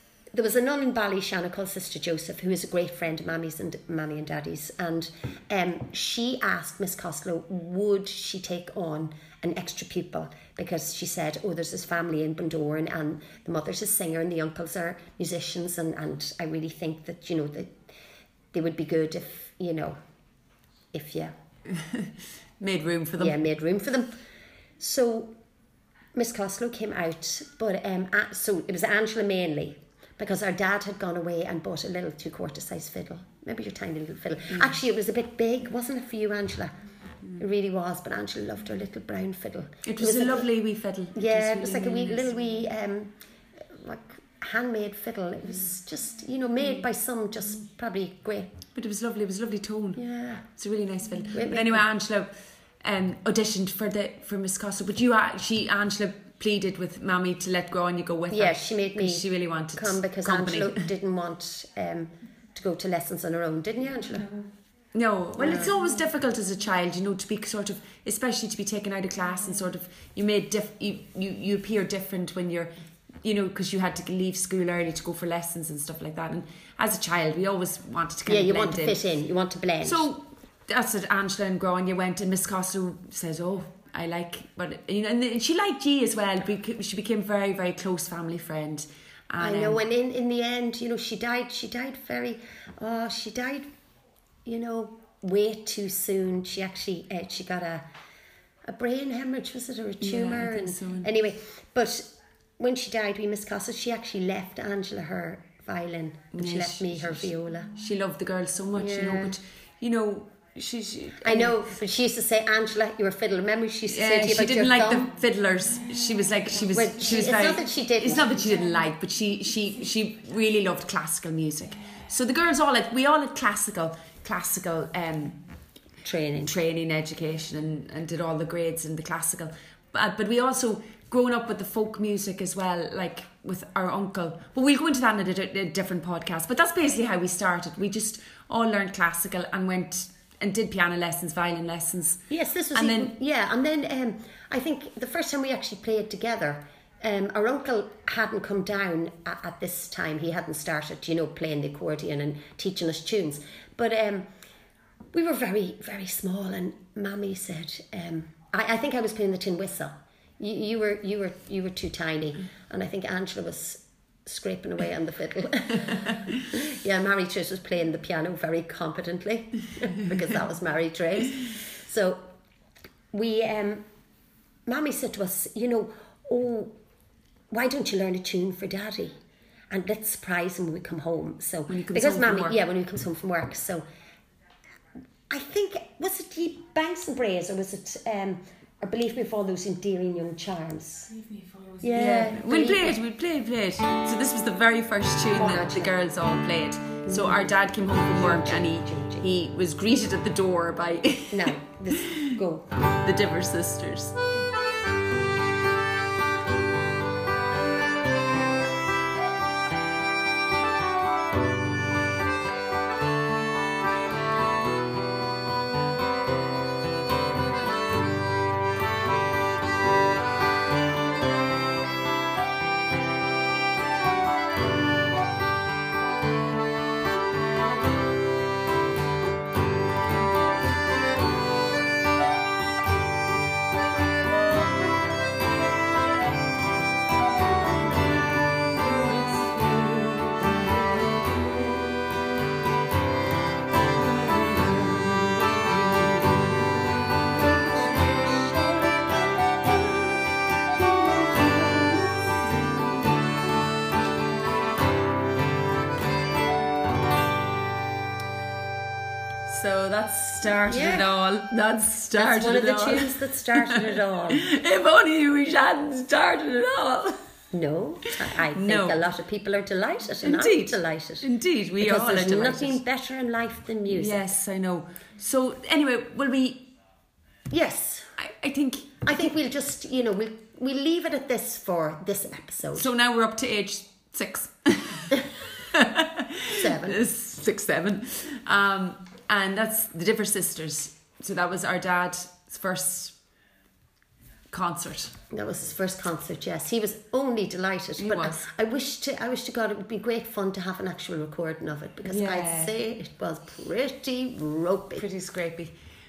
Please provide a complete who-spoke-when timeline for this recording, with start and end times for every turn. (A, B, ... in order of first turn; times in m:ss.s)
0:00.3-0:17.7 A
0:18.5-0:20.0 A
0:20.9-0:21.3 A
0:21.7-0:22.1 B
0:22.6-0:23.4 B
0:23.2-0:24.1 A
0:24.8-0:25.3 A
0:26.2-0:36.7 A
0:37.4-0:40.5 A
0:39.8-0:42.3 B
0:41.2-0:43.1 A
0:43.7-0:48.5 A
0:48.8-0:50.0 B
0:50.0-0:50.5 A
0:50.6-0:52.3 B
0:51.3-0:51.9 A
0:52.8-1:00.9 B
0:58.3-1:04.4 A
1:04.9-1:12.7 B
1:05.4-1:05.7 A
1:13.2-1:19.0 B
1:18.3-1:20.1 A
1:19.8-1:29.8 B
1:29.4-1:33.7 A
1:34.5-1:37.8 A
1:38.7-1:42.1 A
1:40.0-1:41.1 B
1:42.6-1:47.7 A
1:46.4-1:51.7 B
1:48.8-1:49.4 A
1:51.2-1:55.1 A
1:53.9-2:05.4 B
1:56.7-1:58.4 A
2:06.0-2:06.6 A
2:06.4-2:22.2 B
2:22.3-2:34.3 A
2:22.8-2:23.1 B
2:35.1-2:52.3 A
2:53.1-2:53.8 A
2:54.7-2:56.7 A
2:57.5-2:59.1 A
2:59.7-3:03.8 A
3:01.7-3:02.6 B
3:05.3-3:11.1 A
3:11.8-3:13.0 A
3:11.9-3:22.3 B
3:15.3-3:16.0 A
3:17.1-3:19.3 A
3:21.3-3:22.7 A
3:23.0-3:24.2 B
3:58.8-4:02.0 A
4:04.0-4:06.7 A
4:07.4-4:13.0 A
4:19.4-4:27.2 B
4:20.7-4:21.1 A
4:22.2-4:24.4 A
4:27.5-4:31.3 A
4:28.5-4:29.0 B
4:30.2-4:32.8 B
4:31.8-4:34.2 A
4:33.9-4:36.7 B
4:37.5-4:38.1 A
4:38.2-4:39.1 B
4:39.0-4:42.9 A
4:42.8-4:53.2 B
4:46.5-4:47.0 A
4:54.5-4:55.1 B
4:55.3-5:05.1 A
4:58.0-4:58.4 B
5:02.1-5:02.7 B
5:05.0-5:05.7 B